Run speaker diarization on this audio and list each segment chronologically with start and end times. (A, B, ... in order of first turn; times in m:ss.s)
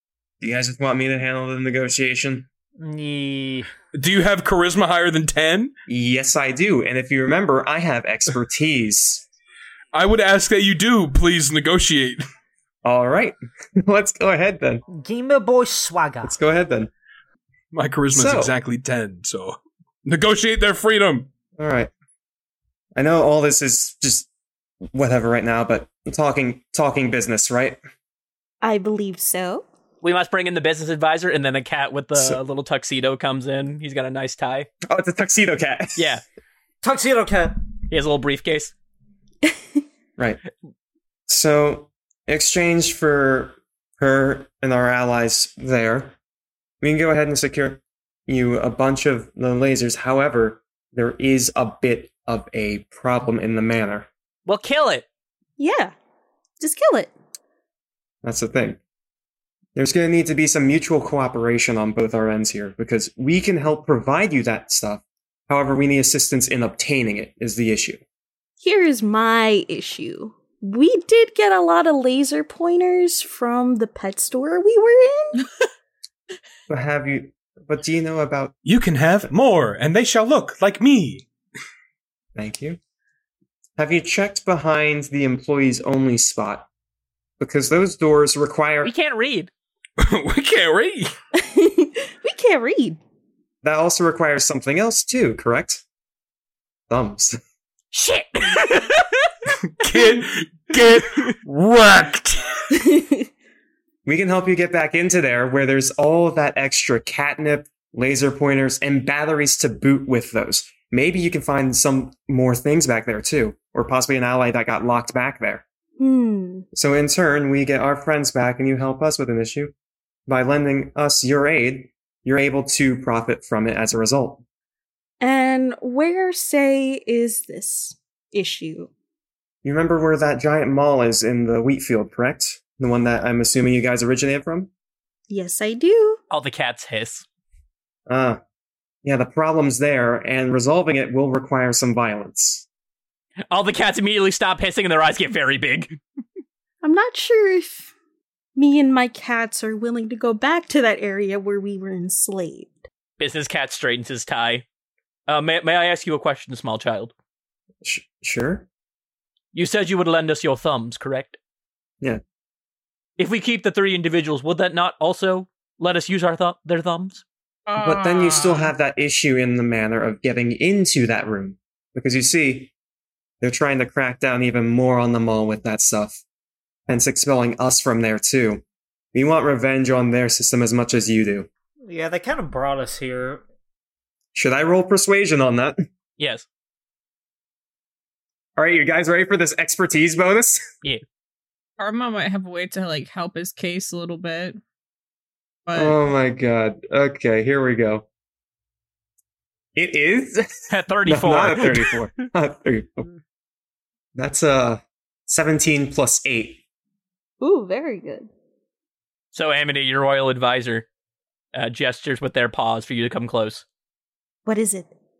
0:00.4-0:02.5 A
0:02.8-0:03.7 B
0:03.9-0:05.7 C
0:05.9-0:09.2 A
0:09.9-0:12.2 C
0:12.8-0:14.8 A
0:14.9-0:16.3 B
0:16.2-0:16.9 A
0:17.7-0:21.3 C
0:18.1-0:18.5 A
0:21.6-0:21.9 A
0:22.9-0:24.3 A
0:24.9-0:27.8 A
0:28.6-0:29.6 D
0:30.0-0:34.7 E
0:34.8-0:36.1 A
0:36.0-0:36.2 E
0:36.8-0:37.5 B
0:37.9-0:38.7 E
0:41.3-0:46.2 A
0:46.8-0:54.1 A
0:54.4-0:55.0 E
0:55.6-0:55.9 D
0:56.6-0:57.1 D
0:58.2-0:58.8 A
0:59.7-1:08.0 A
1:08.6-1:15.4 D
1:16.7-1:18.5 A
1:18.6-1:21.3 C
1:22.3-1:22.8 A
1:23.8-1:26.7 A
1:27.4-1:28.9 A
1:28.8-1:29.5 E
1:30.0-1:31.1 C
1:31.3-1:33.0 D
1:33.6-1:35.8 A
1:36.9-1:37.4 A
1:37.9-1:39.2 E
1:39.6-1:42.4 C
1:42.7-1:43.2 D
1:44.0-1:55.6 A
1:56.0-1:56.6 D
1:56.7-1:59.7 A
2:00.3-2:04.4 A
2:05.2-2:08.9 D
2:09.6-2:14.7 A
2:15.3-2:16.2 D
2:16.3-2:17.2 E
2:18.1-2:18.4 A
2:19.0-2:22.6 A
2:23.5-2:26.0 E
2:26.8-2:27.9 D
2:28.6-2:32.8 D
2:33.2-2:34.6 E
2:35.3-2:37.1 E
2:37.8-2:38.7 A
2:39.5-2:41.4 E
2:43.2-2:47.2 E
2:47.7-2:48.7 F
2:47.8-2:52.7 A
2:53.4-2:56.2 A
2:56.9-2:58.6 A
2:59.1-3:01.5 A
3:01.8-3:03.4 B
3:04.3-3:05.8 A
3:06.2-3:06.4 E
3:08.6-3:10.6 A
3:11.8-3:14.6 F
3:15.6-3:15.9 F
3:15.7-3:18.0 A
3:19.7-3:23.1 A
3:20.7-3:22.3 E
3:24.1-3:26.6 A
3:27.4-3:28.3 D
3:29.3-3:30.8 E
3:31.5-3:33.6 E
3:34.4-3:34.9 D